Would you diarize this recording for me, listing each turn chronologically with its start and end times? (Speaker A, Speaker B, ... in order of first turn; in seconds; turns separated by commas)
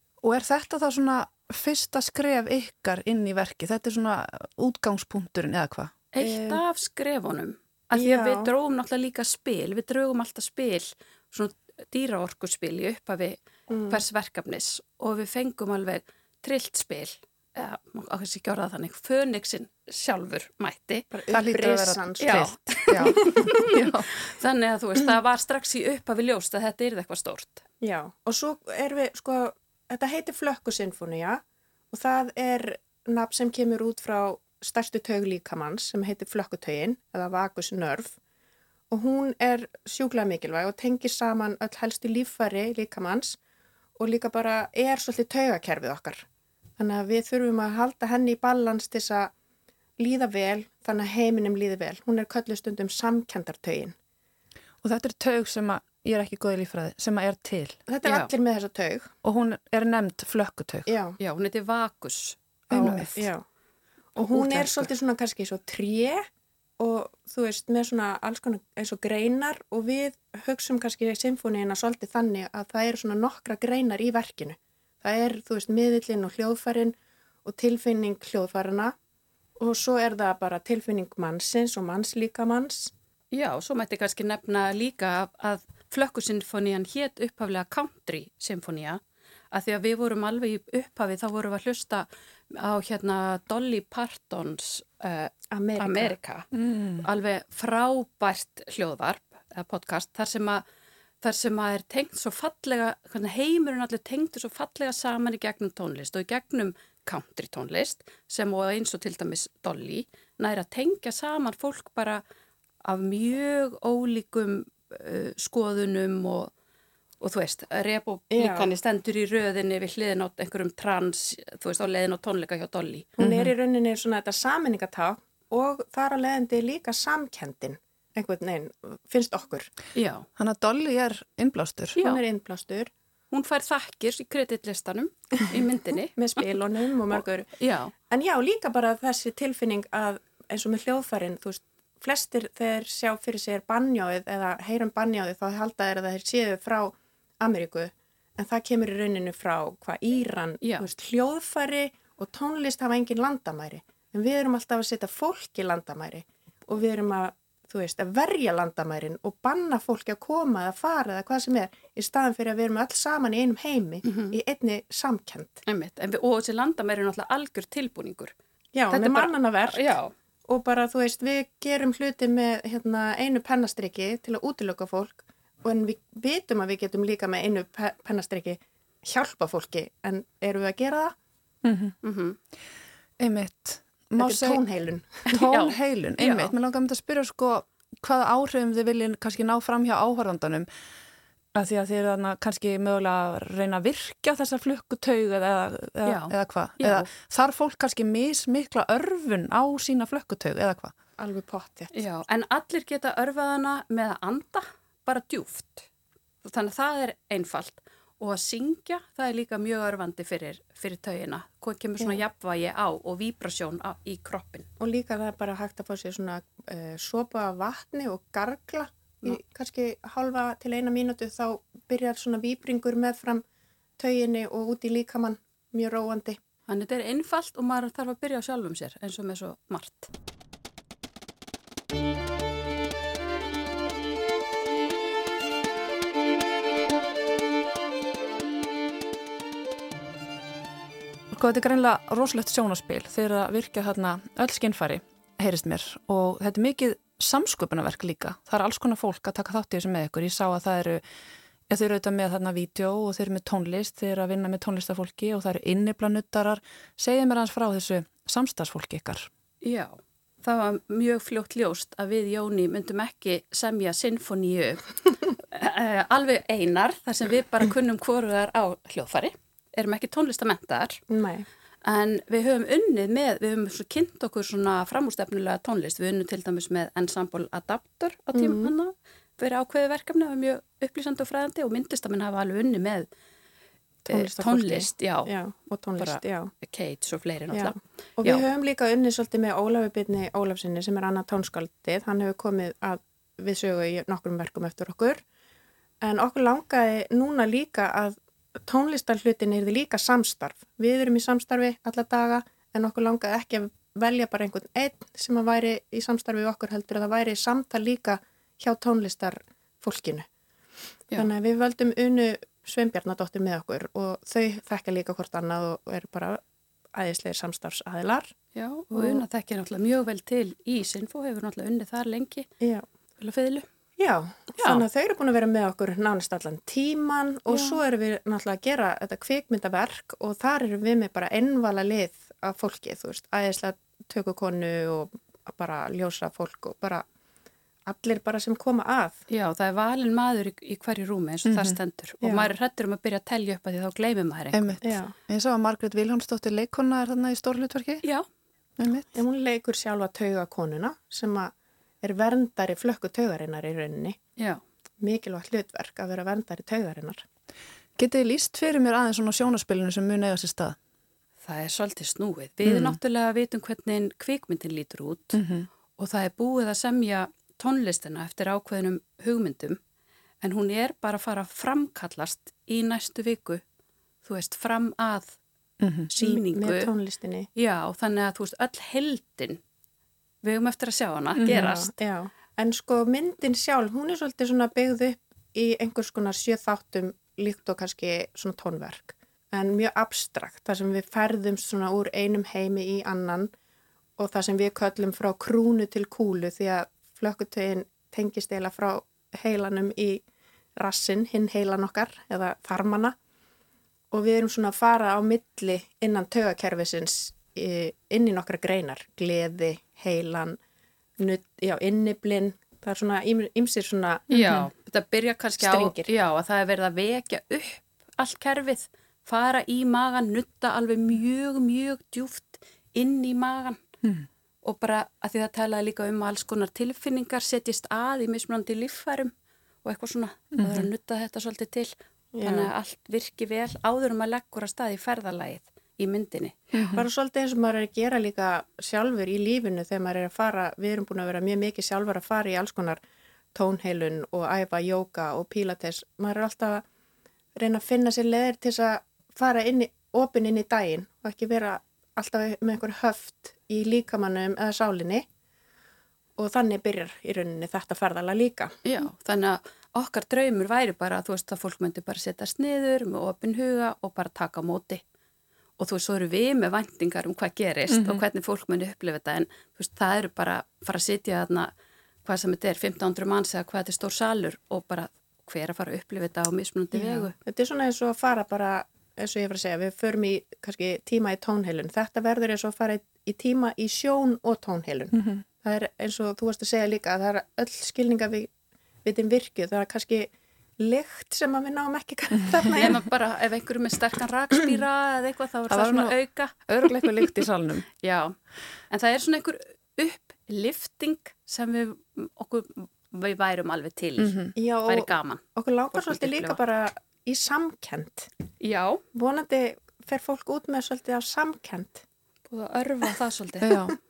Speaker A: 0.2-5.9, Speaker B: 6.1-21.1, Speaker C: 6.2-6.6, Speaker C: 7.9-8.5, Speaker C: 13.7-14.0, Speaker C: 21.1-22.5, Speaker A: 21.3-24.1, Speaker B: 22.2-27.6, Speaker C: 23.0-23.5, Speaker C: 27.8-38.1, Speaker C: 38.9-43.4, Speaker C: 44.0-46.2, Speaker C: 46.8-49.3, Speaker C: 50.0-53.9, Speaker A: 54.8-57.8, Speaker C: 57.9-59.1, Speaker B: 58.0-58.3, Speaker A: 59.2-60.9, Speaker C: 60.9-61.2, Speaker B: 61.2-63.1, Speaker A: 62.7-63.2, Speaker C: 62.7-63.4, Speaker C: 64.1-66.2, Speaker A: 64.3-64.9, Speaker C: 66.8-78.9, Speaker C: 79.6-82.9, Speaker B: 83.3-89.0, Speaker B: 89.5-96.5, Speaker C: 95.5-96.2, Speaker A: 96.6-97.0, Speaker B: 97.0-100.6, Speaker B: 101.2-112.2, Speaker B: 112.8-116.5, Speaker B: 117.2-123.2, Speaker C: 118.3-118.7, Speaker C: 123.2-129.7, Speaker A: 123.2-123.5, Speaker B: 129.9-130.2, Speaker A: 130.4-132.0, Speaker B: 131.9-132.2, Speaker C: 132.0-132.9, Speaker B: 133.3-136.5, Speaker C: 136.2-137.5, Speaker B: 137.1-137.9, Speaker C: 138.1-165.6, Speaker B: 150.6-150.9, Speaker B: 164.0-164.3, Speaker B: 165.7-168.3, Speaker C: 168.7-169.9, Speaker B: 168.9-170.1, Speaker C: 170.5-181.1, Speaker A: 181.6-181.9, Speaker B: 182.0-182.4, Speaker A: 183.2-184.6, Speaker C: 184.2-185.4, Speaker A: 185.2-190.7, Speaker B: 185.5-186.5, Speaker A: 191.5-200.9, Speaker B: 196.0-197.1, Speaker C: 201.2-201.9, Speaker B: 201.9-205.8, Speaker B: 206.4-214.7, Speaker C: 214.8-223.4, Speaker C: 224.0-226.4, Speaker B: 226.7-230.1, Speaker A: 241.3-251.0, Speaker A: 251.7-259.3, Speaker B: 259.6-264.9, Speaker B: 265.5-271.0, Speaker C: 271.1-271.4, Speaker B: 271.8-283.1, Speaker C: 278.3-278.7, Speaker C: 284.0-286.5, Speaker B: 284.1-285.3, Speaker B: 286.0-288.5, Speaker C: 287.5-295.2, Speaker C: 296.0-310.3, Speaker C: 311.1-316.4, Speaker C: 316.9-318.3, Speaker B: 318.5-322.5, Speaker C: 318.9-319.2, Speaker C: 322.6-322.8, Speaker B: 323.2-323.7, Speaker C: 324.0-337.0, Speaker B: 327.5-327.8, Speaker C: 337.9-339.2, Speaker B: 339.3-344.8, Speaker A: 341.5-341.8, Speaker C: 342.2-342.5, Speaker A: 344.5-348.0, Speaker C: 344.8-345.1, Speaker A: 348.8-349.1, Speaker C: 349.1-354.2, Speaker C: 355.0-357.2, Speaker A: 358.0-360.8, Speaker B: 361.4-365.4, Speaker A: 362.6-363.0, Speaker A: 365.3-365.7, Speaker B: 366.0-369.8, Speaker B: 370.4-373.6, Speaker B: 374.2-375.4, Speaker A: 375.8-376.1, Speaker B: 376.1-376.9, Speaker C: 376.2-377.5, Speaker B: 377.6-379.6, Speaker B: 380.4-381.9, Speaker A: 381.4-381.7, Speaker C: 381.5-393.5, Speaker C: 394.2-400.2, Speaker C: 400.8-403.1, Speaker C: 404.1-410.6, Speaker C: 411.2-414.6, Speaker B: 414.3-423.8, Speaker A: 414.4-414.6, Speaker C: 415.6-416.1, Speaker B: 424.6-429.3, Speaker B: 429.8-436.6, Speaker A: 430.6-430.9, Speaker C: 432.3-432.7, Speaker A: 436.7-437.0, Speaker C: 436.9-443.0, Speaker C: 443.5-446.8, Speaker C: 447.6-455.2, Speaker C: 456.4-458.8, Speaker B: 458.8-465.0, Speaker B: 465.8-471.7, Speaker A: 467.9-468.2, Speaker B: 472.2-477.3, Speaker C: 476.9-488.5, Speaker C: 489.0-493.0, Speaker B: 492.7-497.3, Speaker A: 495.7-497.8, Speaker B: 498.0-498.4, Speaker B: 498.9-506.6, Speaker A: 504.2-504.6, Speaker C: 504.6-508.3, Speaker B: 508.6-509.0, Speaker C: 509.1-512.0, Speaker B: 512.5-513.8, Speaker A: 513.6-513.9